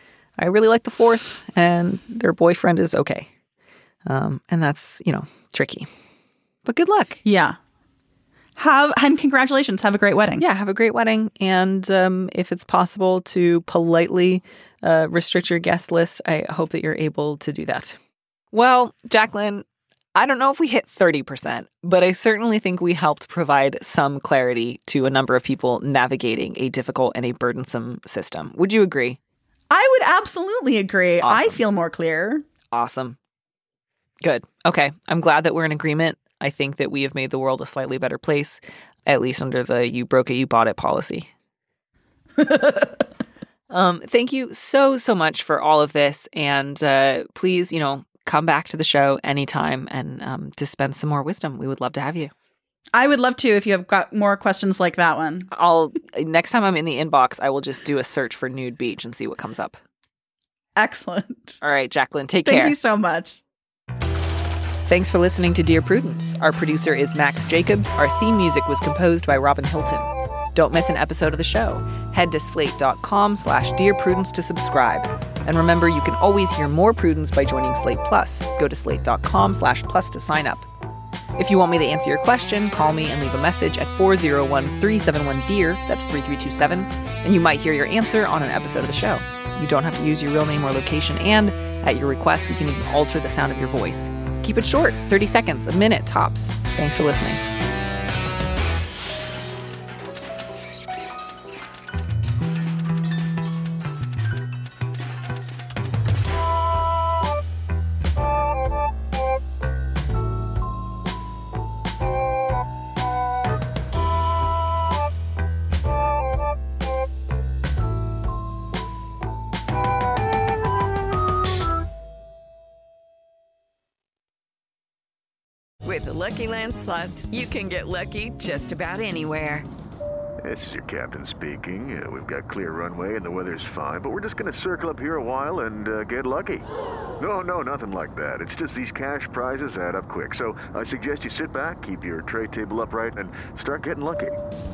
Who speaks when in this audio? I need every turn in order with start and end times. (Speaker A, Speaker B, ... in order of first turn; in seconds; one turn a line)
Speaker A: 0.4-3.3
Speaker A: 4.1-5.9
Speaker A: 6.7-7.2
Speaker B: 7.2-7.6
Speaker B: 8.6-10.4
Speaker A: 10.4-18.0
Speaker A: 18.5-19.6
Speaker A: 20.1-29.2
Speaker B: 29.7-32.4
Speaker A: 31.2-31.6
Speaker A: 32.7-33.2
Speaker A: 34.2-41.3
Speaker A: 43.7-52.3
Speaker B: 52.9-55.5
Speaker A: 55.5-59.8
Speaker B: 60.8-61.6
Speaker A: 61.6-62.7
Speaker B: 62.4-63.4
Speaker A: 64.8-80.7
Speaker A: 81.4-97.4
Speaker C: 125.8-129.7
Speaker D: 130.4-136.6
Speaker D: 137.2-144.4